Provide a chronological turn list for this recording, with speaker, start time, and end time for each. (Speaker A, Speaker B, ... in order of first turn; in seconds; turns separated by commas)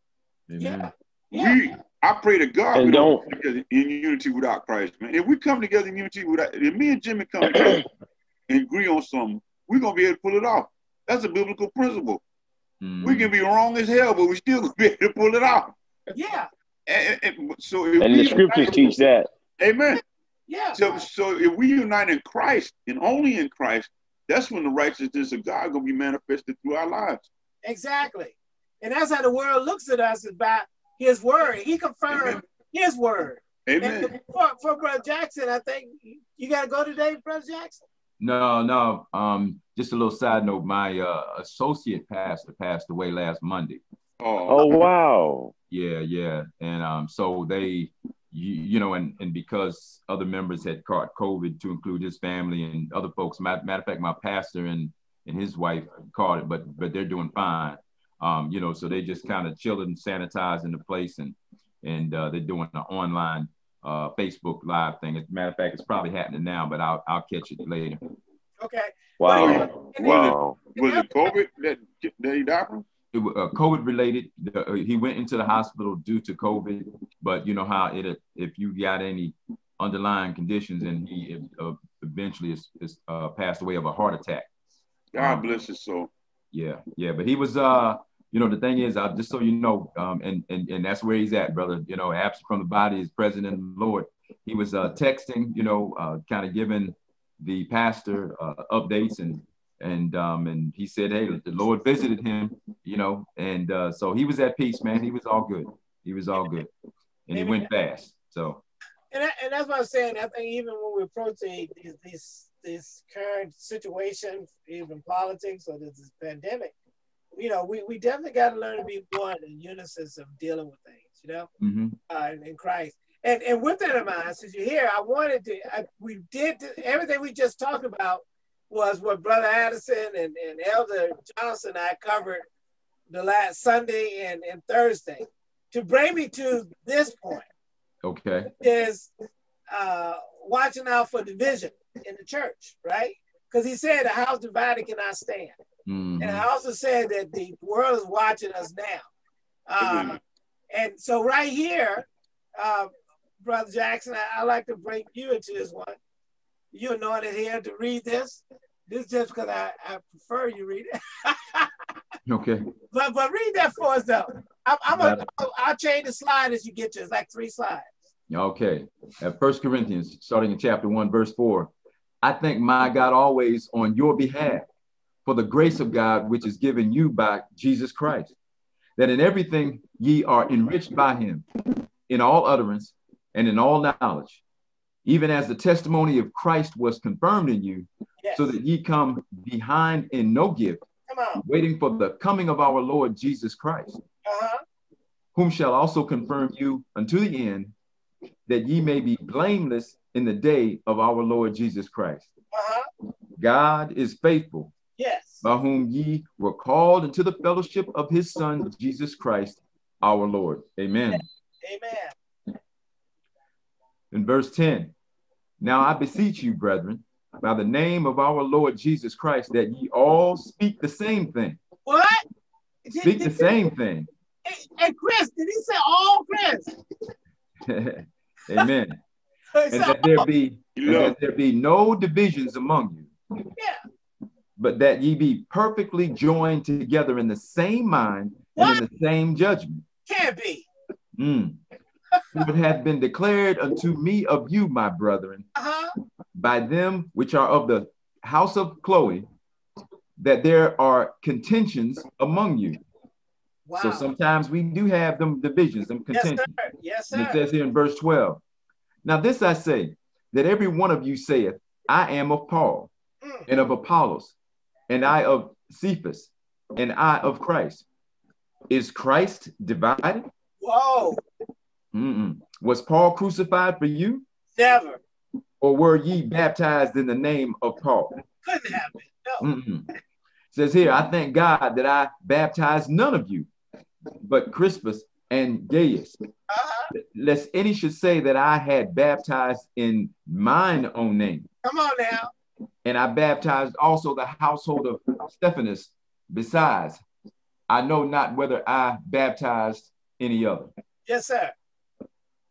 Speaker A: 0.5-0.9, Speaker B: 0.6-1.6, Speaker C: 1.3-7.9, Speaker D: 2.7-3.3, Speaker C: 8.5-12.2, Speaker A: 12.8-13.3, Speaker C: 13.0-15.8, Speaker B: 16.1-16.5, Speaker C: 16.9-18.8, Speaker D: 18.0-19.3, Speaker C: 19.6-20.0, Speaker B: 20.5-20.8, Speaker C: 20.8-27.3, Speaker B: 27.6-37.8, Speaker C: 32.1-32.4, Speaker C: 33.7-34.1, Speaker A: 38.2-43.8, Speaker C: 44.2-44.9, Speaker D: 44.5-45.5, Speaker A: 45.7-68.0, Speaker B: 68.6-71.1, Speaker D: 69.2-70.6, Speaker C: 69.3-72.8, Speaker A: 73.1-84.5, Speaker C: 85.1-86.1, Speaker A: 85.2-85.5, Speaker A: 86.5-106.7, Speaker A: 107.3-108.6, Speaker B: 107.3-107.7, Speaker B: 109.1-116.7, Speaker B: 117.3-121.5, Speaker A: 121.6-122.0, Speaker B: 122.1-132.5, Speaker B: 133.1-137.5, Speaker A: 138.0-138.5, Speaker B: 138.6-139.1, Speaker B: 139.7-145.6, Speaker A: 145.9-146.5, Speaker B: 146.2-149.1, Speaker B: 149.7-150.2, Speaker C: 149.8-150.2, Speaker B: 150.7-152.9, Speaker B: 153.4-156.0, Speaker B: 156.7-161.7, Speaker A: 162.2-162.6, Speaker B: 162.9-167.9, Speaker A: 164.9-165.2, Speaker A: 168.3-171.7, Speaker A: 172.2-174.7, Speaker A: 175.2-178.3, Speaker A: 179.0-181.4, Speaker A: 182.1-184.4, Speaker A: 185.1-190.8, Speaker B: 188.2-188.5, Speaker B: 191.1-191.4, Speaker A: 191.4-194.0, Speaker B: 194.3-194.6, Speaker A: 195.3-197.8, Speaker A: 198.5-202.3, Speaker B: 202.5-202.9, Speaker A: 203.4-204.7, Speaker B: 205.0-205.4, Speaker A: 205.4-211.2, Speaker B: 211.1-212.1, Speaker A: 214.1-214.9, Speaker A: 215.6-221.6, Speaker B: 221.9-222.2, Speaker B: 222.9-223.7, Speaker A: 223.0-224.1, Speaker B: 224.4-226.8, Speaker A: 227.7-229.0, Speaker B: 229.6-230.3, Speaker A: 229.7-233.1, Speaker C: 230.8-231.2, Speaker A: 234.6-239.8, Speaker B: 238.6-238.8, Speaker B: 240.1-240.7, Speaker A: 241.2-241.6, Speaker A: 242.3-245.5, Speaker B: 245.6-245.9, Speaker A: 246.3-249.3, Speaker A: 250.2-252.8, Speaker B: 253.7-254.1, Speaker A: 253.8-256.5, Speaker B: 256.1-257.4, Speaker A: 257.1-258.4, Speaker A: 259.0-262.9, Speaker A: 263.5-264.4, Speaker A: 264.9-267.9, Speaker A: 268.7-270.3, Speaker B: 270.6-271.2, Speaker A: 271.9-274.2, Speaker B: 274.6-275.0, Speaker A: 275.6-278.2, Speaker B: 278.4-279.5, Speaker A: 279.4-279.9, Speaker A: 280.5-283.5, Speaker A: 284.2-286.2, Speaker B: 286.5-286.9, Speaker A: 286.9-291.5, Speaker B: 291.6-292.3, Speaker A: 292.9-297.0, Speaker A: 297.7-300.7, Speaker B: 301.1-301.5